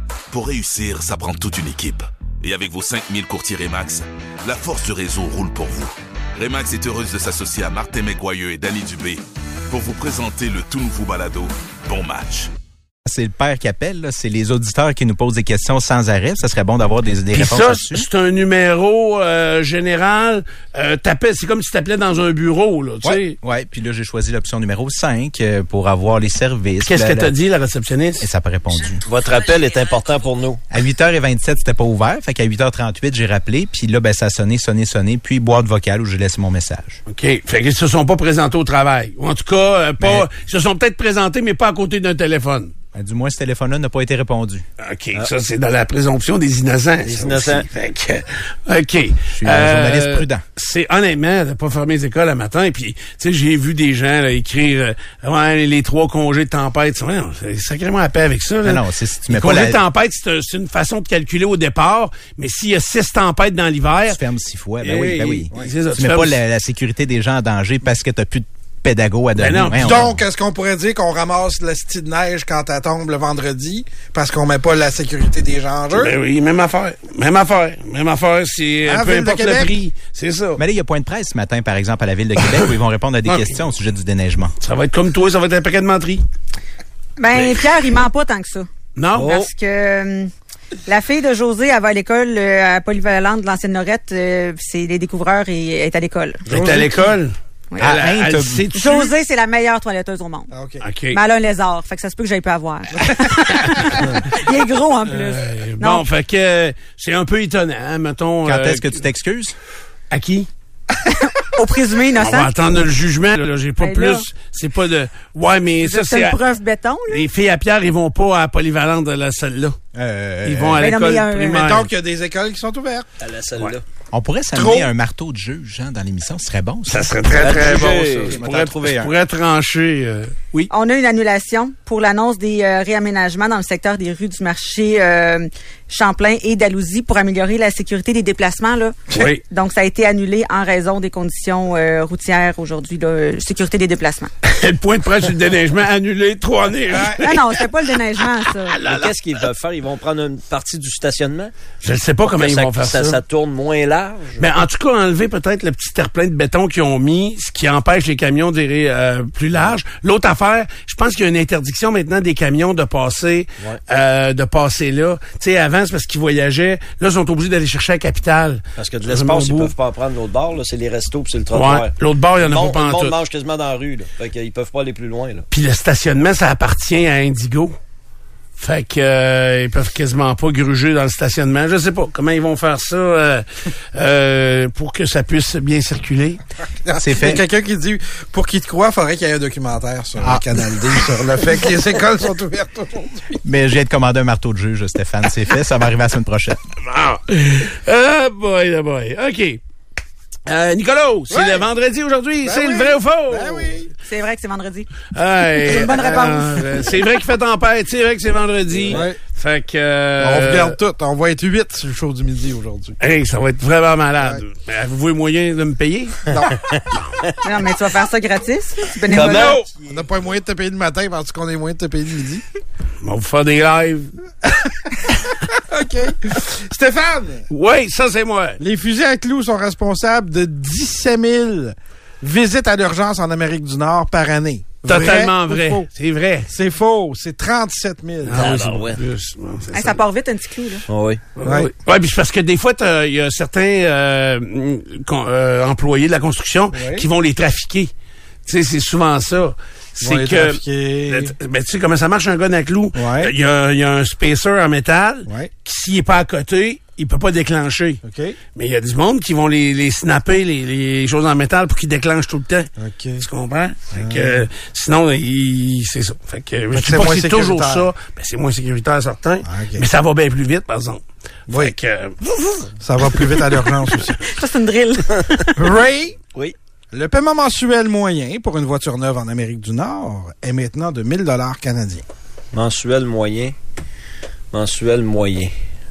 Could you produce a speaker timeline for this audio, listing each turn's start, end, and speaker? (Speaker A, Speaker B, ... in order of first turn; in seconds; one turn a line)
Speaker A: 0.3-12.5
Speaker B: 13.0-18.1
Speaker C: 17.3-23.4
Speaker B: 23.0-27.3
Speaker C: 26.8-28.3
Speaker B: 28.2-29.0
Speaker D: 29.0-30.6
Speaker B: 30.7-37.0
Speaker C: 37.1-42.7
Speaker B: 40.0-40.3
Speaker B: 42.9-44.6
Speaker C: 44.8-64.2
Speaker D: 47.0-47.7
Speaker B: 49.3-50.4
Speaker B: 58.6-59.8
Speaker B: 64.1-70.2
Speaker C: 64.8-66.4
Speaker C: 69.4-70.0
Speaker E: 69.8-76.1
Speaker C: 75.9-80.6
Speaker E: 78.8-79.8
Speaker B: 80.6-84.5
Speaker C: 83.2-83.5
Speaker C: 84.6-86.2
Speaker F: 87.2-90.3
Speaker C: 89.0-89.5
Speaker F: 90.8-96.5
Speaker C: 96.5-99.1
Speaker E: 96.5-97.0
Speaker B: 97.8-98.7
Speaker F: 98.7-100.5
Speaker E: 100.5-100.8
Speaker C: 100.8-101.2
Speaker F: 101.1-106.1
Speaker C: 105.0-109.0
Speaker B: 108.4-109.5
Speaker C: 110.1-110.5
Speaker F: 111.3-112.8
Speaker C: 112.2-116.4
Speaker F: 113.8-114.2
Speaker F: 115.8-117.3
Speaker C: 117.1-119.8
Speaker B: 119.9-120.8
Speaker C: 120.4-121.9
Speaker F: 120.8-121.7
Speaker E: 121.5-123.1
Speaker D: 123.2-123.8
Speaker B: 124.1-127.2
Speaker E: 124.5-124.9
Speaker C: 126.9-130.7
Speaker D: 127.3-128.4
Speaker B: 128.4-129.1
Speaker F: 130.7-144.3
Speaker C: 139.1-139.4
Speaker C: 144.4-147.7
Speaker F: 147.0-148.8
Speaker C: 148.4-149.1
Speaker D: 148.8-151.5
Speaker C: 151.8-153.2
Speaker D: 152.2-154.4
Speaker C: 154.4-169.7
Speaker D: 168.8-175.5
Speaker C: 171.5-173.2
Speaker C: 175.5-177.8
Speaker C: 178.6-186.4
Speaker E: 186.8-193.4
Speaker B: 187.0-187.4
Speaker B: 190.2-190.6
Speaker B: 193.4-196.6
Speaker C: 196.8-199.6
Speaker C: 200.5-203.7
Speaker E: 201.3-201.7
Speaker E: 202.4-203.9
Speaker F: 204.1-204.9
Speaker C: 205.1-210.8
Speaker F: 205.6-206.6
Speaker E: 208.9-209.2
Speaker E: 210.2-212.9
Speaker C: 213.0-216.3
Speaker E: 216.3-216.6
Speaker F: 217.4-219.6
Speaker C: 219.1-219.7
Speaker D: 219.1-219.5
Speaker E: 219.1-222.4
Speaker C: 223.0-224.1
Speaker E: 224.4-227.4
Speaker C: 227.5-228.6
Speaker E: 228.6-235.9
Speaker C: 234.8-236.5
Speaker E: 236.5-238.6
Speaker C: 238.2-240.0
Speaker D: 238.3-239.0
Speaker F: 239.7-240.8
Speaker D: 240.9-241.2
Speaker C: 241.4-247.9
Speaker E: 241.4-241.7
Speaker E: 246.7-247.0
Speaker C: 248.4-258.0
Speaker E: 250.0-251.3
Speaker E: 252.9-253.3
Speaker E: 258.0-258.4
Speaker C: 258.5-273.2
Speaker E: 262.8-263.2
Speaker E: 263.9-264.4
Speaker E: 266.7-267.9
Speaker E: 269.4-269.9
Speaker E: 271.5-271.7
Speaker E: 272.8-274.2
Speaker F: 274.3-275.8
Speaker E: 275.6-276.2
Speaker E: 276.9-282.0
Speaker D: 282.5-283.5
Speaker D: 284.5-285.5